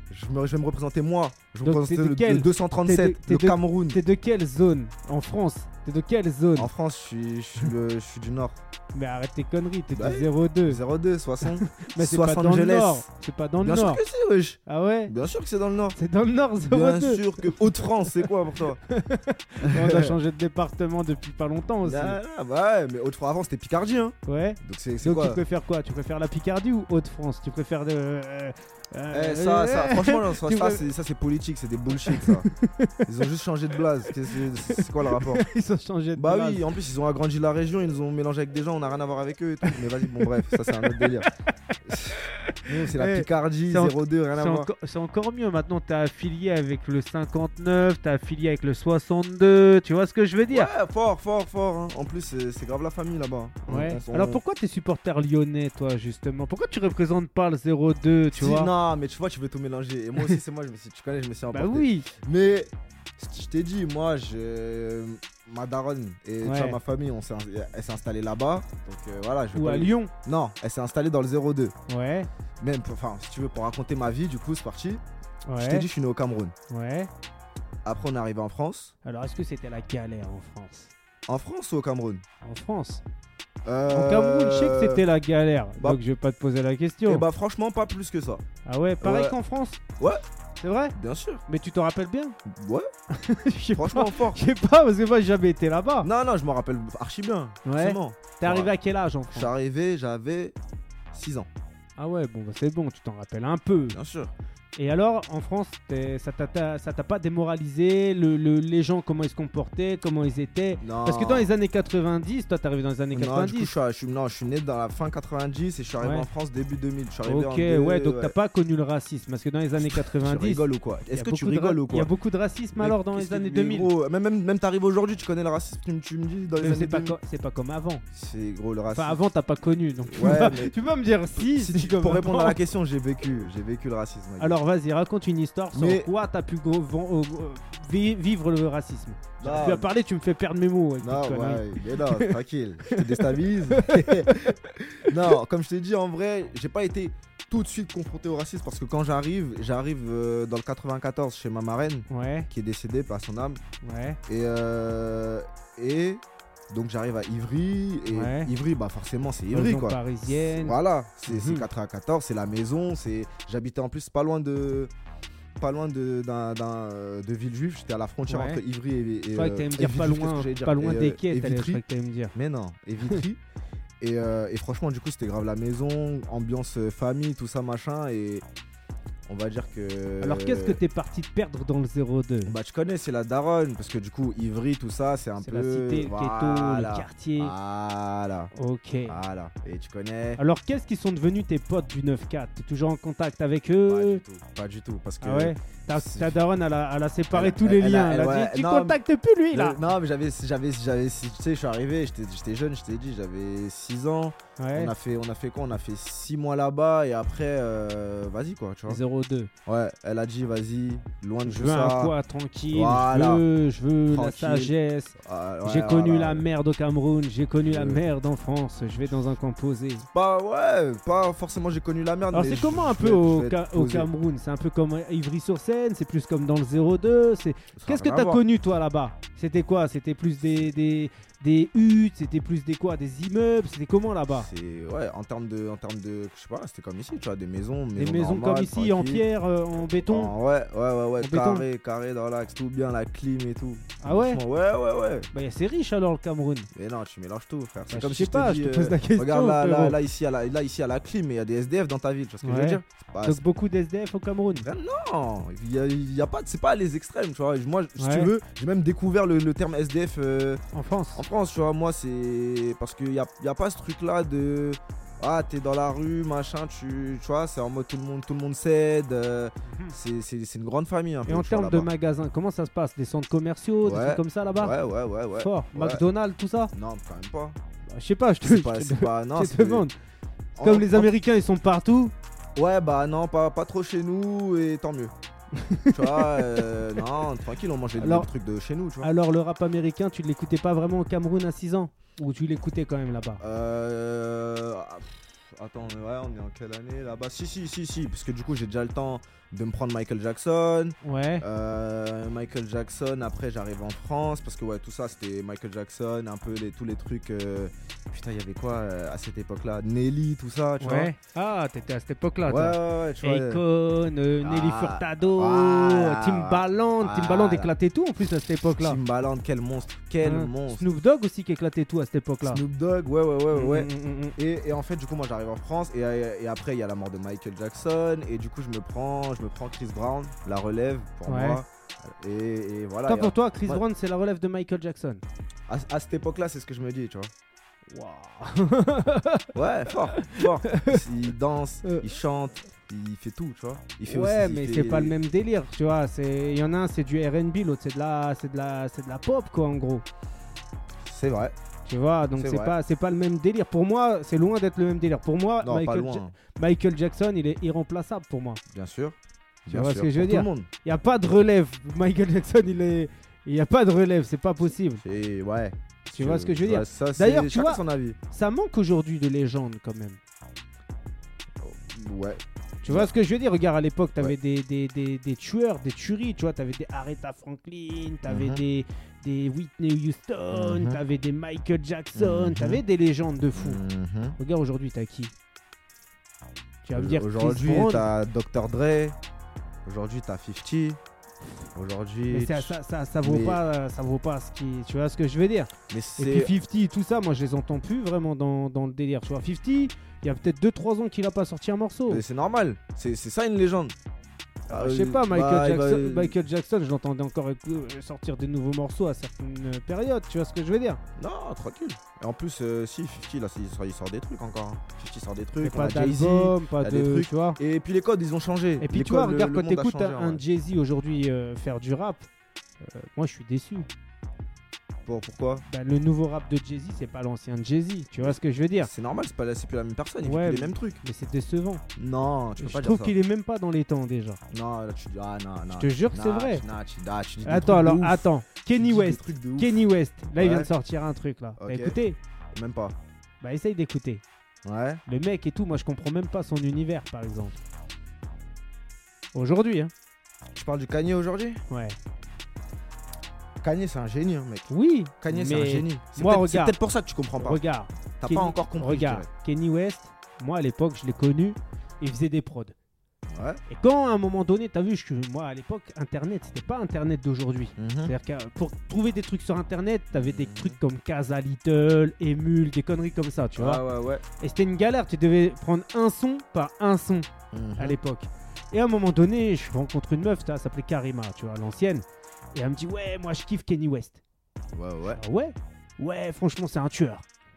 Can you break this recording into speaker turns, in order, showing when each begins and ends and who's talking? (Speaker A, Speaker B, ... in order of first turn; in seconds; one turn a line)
Speaker A: 0.1-4.0
Speaker B: 1.6-6.7
Speaker A: 6.6-8.6
Speaker B: 8.9-10.8
Speaker A: 9.9-13.1
Speaker B: 11.6-14.0
Speaker A: 13.6-16.0
Speaker B: 14.7-15.1
Speaker B: 16.0-17.5
Speaker A: 16.6-18.8
Speaker B: 18.9-22.2
Speaker A: 19.6-20.2
Speaker A: 21.8-25.4
Speaker B: 24.3-30.8
Speaker A: 29.1-32.5
Speaker B: 32.1-32.9
Speaker A: 33.1-35.5
Speaker B: 34.6-36.6
Speaker A: 36.2-41.3
Speaker B: 40.8-41.1
Speaker A: 41.9-44.7
Speaker B: 42.5-50.7
Speaker A: 50.5-54.4
Speaker B: 53.7-58.7
Speaker A: 58.3-71.8
Speaker B: 61.5-62.1
Speaker B: 66.4-66.8
Speaker B: 69.5-70.1
Speaker B: 71.9-72.3
Speaker A: 72.6-75.0
Speaker B: 75.5-75.9
Speaker A: 75.6-76.5
Speaker B: 76.7-77.1
Speaker A: 77.8-78.9
Speaker B: 79.0-80.9
Speaker A: 81.3-82.2
Speaker B: 82.4-83.0
Speaker A: 83.7-85.0
Speaker B: 83.9-87.2
Speaker A: 87.1-88.4
Speaker B: 88.7-89.8
Speaker A: 89.0-89.4
Speaker B: 90.6-91.0
Speaker A: 91.0-91.4
Speaker B: 91.5-92.4
Speaker A: 92.5-92.9
Speaker B: 93.1-96.1
Speaker A: 93.8-94.4
Speaker A: 96.0-98.7
Speaker B: 97.7-99.5
Speaker A: 99.3-100.6
Speaker A: 101.1-101.5
Speaker B: 102.0-104.0
Speaker A: 103.9-104.3
Speaker B: 104.8-113.7
Speaker A: 110.8-111.5
Speaker A: 113.1-118.3
Speaker B: 116.0-116.3
Speaker B: 117.2-123.9
Speaker A: 119.8-122.1
Speaker A: 122.8-127.2
Speaker B: 126.6-128.0
Speaker A: 128.1-129.2
Speaker B: 128.9-132.6
Speaker A: 130.1-130.8
Speaker A: 131.4-134.6
Speaker B: 134.4-142.3
Speaker A: 135.7-136.1
Speaker A: 139.4-139.9
Speaker A: 141.0-153.6
Speaker B: 142.9-144.6
Speaker B: 152.1-152.5
Speaker B: 153.8-154.2
Speaker A: 154.3-164.9
Speaker B: 158.1-158.5
Speaker B: 159.5-161.7
Speaker A: 165.6-171.8
Speaker B: 168.3-168.6
Speaker B: 169.3-172.3
Speaker A: 172.3-173.4
Speaker A: 174.0-178.4
Speaker A: 179.3-180.8
Speaker B: 180.2-182.5
Speaker A: 182.4-188.5
Speaker B: 185.4-187.5
Speaker B: 188.6-189.2
Speaker A: 189.1-190.4
Speaker B: 190.4-194.2
Speaker A: 193.9-196.4
Speaker B: 195.2-199.8
Speaker A: 197.3-199.0
Speaker A: 199.5-209.0
Speaker B: 204.6-204.9
Speaker B: 208.9-209.5
Speaker A: 209.7-212.1
Speaker B: 211.5-220.1
Speaker A: 212.7-213.4
Speaker A: 214.1-216.5
Speaker A: 217.6-218.0
Speaker A: 219.0-219.3
Speaker A: 220.1-224.1
Speaker B: 222.3-234.5
Speaker A: 227.8-228.4
Speaker A: 230.4-230.7
Speaker A: 234.3-239.2
Speaker B: 238.0-240.3
Speaker A: 240.1-245.3
Speaker B: 241.2-241.6
Speaker B: 244.0-244.4
Speaker B: 245.3-246.7
Speaker A: 246.7-253.4
Speaker B: 247.9-250.0
Speaker B: 252.4-254.7
Speaker A: 254.6-260.6
Speaker B: 258.0-258.3
Speaker B: 260.7-261.2
Speaker A: 261.2-271.9
Speaker B: 269.7-269.9
Speaker B: 271.3-274.8
Speaker A: 273.8-276.0
Speaker B: 275.4-276.7
Speaker A: 276.7-277.6
Speaker B: 277.9-279.9
Speaker A: 278.4-279.9
Speaker A: 280.6-281.1
Speaker B: 280.6-282.1
Speaker A: 282.6-285.1
Speaker B: 285.6-286.7
Speaker A: 285.9-289.1
Speaker B: 288.0-288.3
Speaker B: 289.0-293.4
Speaker A: 293.4-311.1
Speaker B: 301.0-301.4
Speaker B: 310.8-319.0
Speaker A: 312.5-313.6
Speaker A: 314.4-317.7
Speaker A: 318.7-320.9
Speaker B: 320.2-322.6
Speaker A: 322.4-333.8
Speaker B: 323.5-324.4
Speaker B: 331.3-331.6
Speaker B: 333.1-335.2
Speaker A: 335.7-337.3
Speaker B: 337.9-339.5
Speaker A: 339.5-345.1
Speaker B: 340.1-341.0
Speaker B: 344.1-350.0
Speaker A: 351.0-351.6
Speaker B: 351.9-358.6
Speaker A: 352.4-352.7
Speaker A: 355.6-356.4
Speaker A: 358.7-360.7
Speaker B: 359.7-365.0
Speaker A: 365.0-368.2
Speaker B: 366.1-370.2
Speaker A: 371.6-373.1
Speaker B: 372.8-383.8
Speaker A: 378.3-378.6
Speaker A: 380.5-381.0
Speaker A: 382.1-382.8
Speaker A: 383.6-384.4
Speaker B: 384.4-385.3
Speaker B: 386.8-388.0
Speaker A: 386.9-389.2
Speaker A: 389.9-391.0
Speaker A: 391.8-393.6
Speaker B: 392.3-402.2
Speaker A: 395.9-396.6
Speaker A: 402.1-403.9
Speaker A: 404.7-406.4
Speaker B: 404.7-411.0
Speaker A: 411.2-420.4
Speaker B: 415.6-417.6
Speaker B: 418.8-422.3
Speaker B: 422.8-423.9
Speaker A: 425.1-425.7
Speaker B: 425.7-428.9
Speaker A: 428.2-431.0
Speaker B: 430.2-431.8
Speaker A: 432.0-433.1
Speaker B: 432.6-434.4
Speaker A: 434.5-438.2
Speaker B: 435.8-436.6
Speaker B: 437.4-442.2
Speaker A: 438.8-440.7
Speaker A: 441.6-442.0
Speaker A: 442.5-443.0
Speaker B: 443.4-444.2
Speaker A: 444.6-445.0
Speaker B: 445.1-447.6
Speaker B: 449.3-449.9
Speaker A: 450.5-451.6
Speaker B: 451.7-452.0
Speaker A: 453.6-457.6
Speaker B: 454.7-456.8
Speaker B: 457.4-462.8
Speaker A: 458.2-459.3
Speaker A: 463.3-463.6
Speaker B: 463.7-473.8
Speaker A: 467.8-468.1
Speaker A: 470.1-470.8
Speaker A: 473.6-474.2
Speaker B: 474.4-484.2
Speaker A: 477.5-478.0
Speaker A: 484.7-485.2
Speaker B: 485.1-487.2